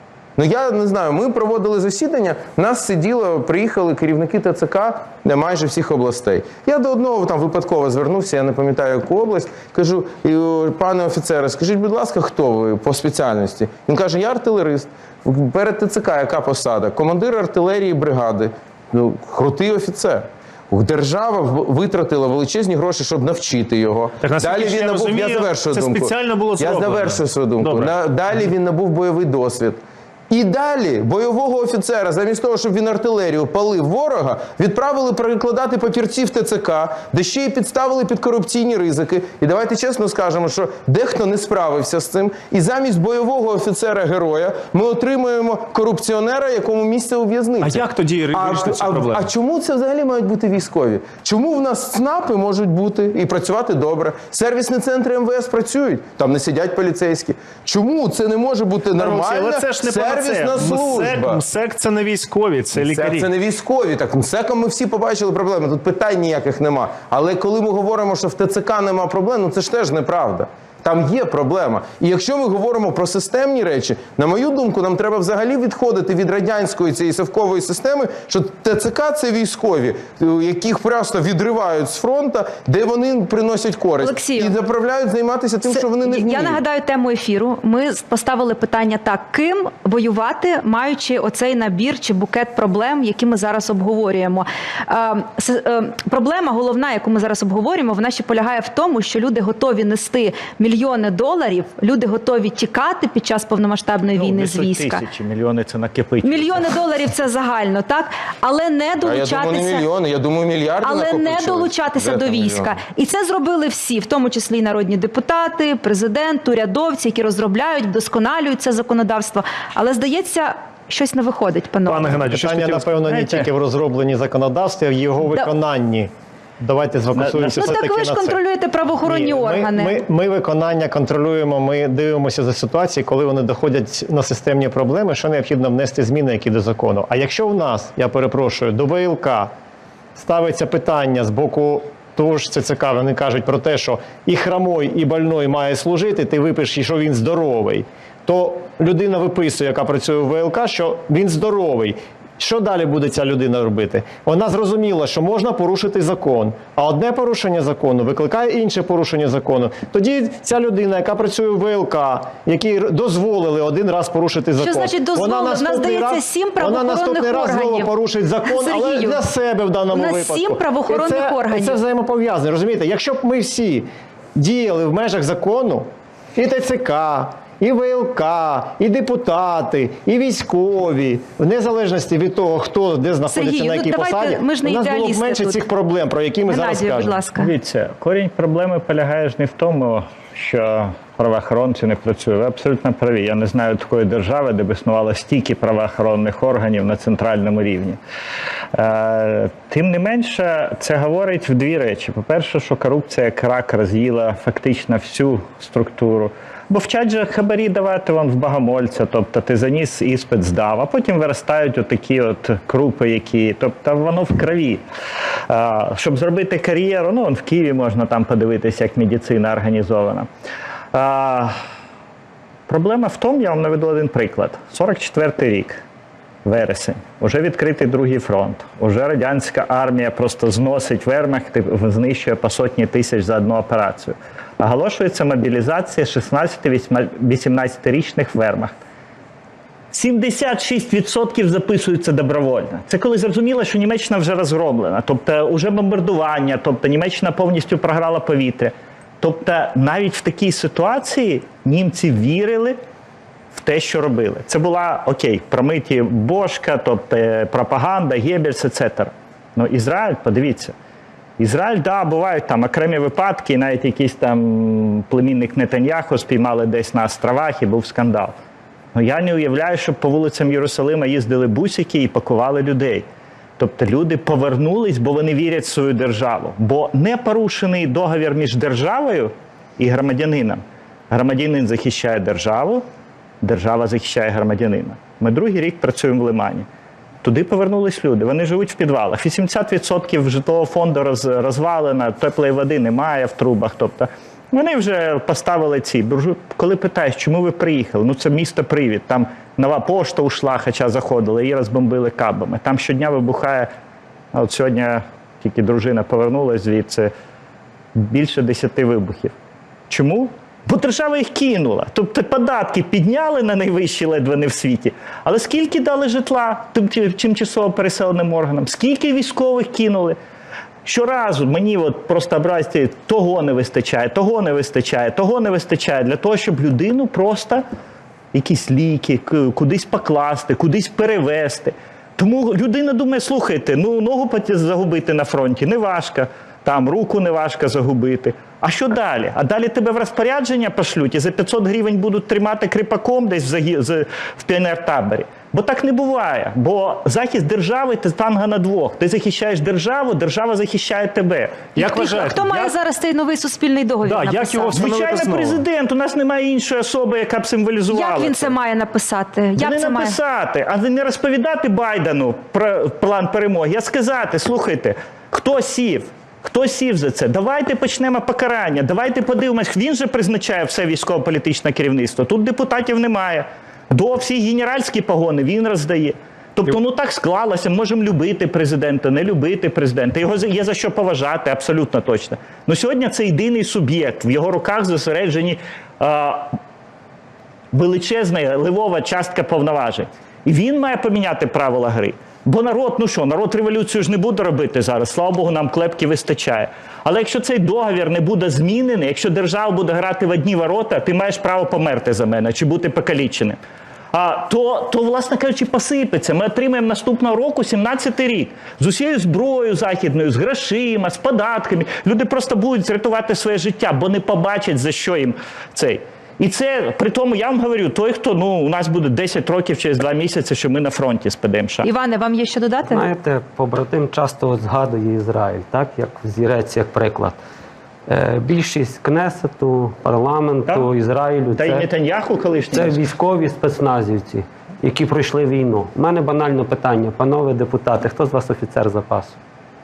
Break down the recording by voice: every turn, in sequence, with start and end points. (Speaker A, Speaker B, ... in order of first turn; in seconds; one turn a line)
Speaker A: 0.3-61.4
Speaker B: 24.2-27.9
Speaker B: 47.6-49.3
Speaker B: 58.9-63.3
Speaker A: 62.7-86.6
Speaker C: 84.0-84.5
Speaker C: 85.6-105.0
Speaker D: 104.1-106.8
Speaker C: 106.2-109.8
Speaker A: 109.0-112.8
Speaker C: 110.8-122.1
Speaker B: 121.8-123.1
Speaker E: 122.1-126.1
Speaker D: 123.1-123.5
Speaker C: 125.2-125.5
Speaker E: 126.6-128.4
Speaker D: 127.2-127.6
Speaker C: 127.4-130.0
Speaker E: 129.0-139.5
Speaker E: 140.2-187.2
Speaker C: 164.6-167.9
Speaker C: 168.4-169.2
Speaker C: 169.9-171.8
Speaker C: 183.3-185.6
Speaker C: 186.5-187.5
Speaker D: 187.3-198.0
Speaker D: 198.7-214.8
Speaker D: 215.5-220.3
Speaker D: 220.9-221.5
Speaker D: 222.7-225.8
Speaker D: 226.4-238.7
Speaker D: 239.9-252.8
Speaker D: 253.5-260.7
Speaker D: 261.4-268.3
Speaker D: 268.9-273.1
Speaker D: 273.6-280.6
Speaker D: 281.1-282.8
Speaker D: 283.4-286.7
Speaker D: 287.2-303.7
Speaker D: 304.3-307.1
Speaker D: 307.9-309.3
Speaker D: 309.9-320.1
Speaker D: 320.8-327.6
Speaker D: 328.3-351.7
Speaker B: 351.8-352.7
Speaker C: 351.8-354.8
Speaker B: 354.0-355.6
Speaker D: 354.7-358.6
Speaker C: 357.9-360.2
Speaker D: 359.6-386.5
Speaker D: 387.7-403.6
Speaker D: 404.1-421.9
Speaker C: 421.8-423.0
Speaker F: 422.8-427.4
Speaker F: 428.1-431.9
Speaker D: 431.6-433.0
Speaker F: 432.7-439.4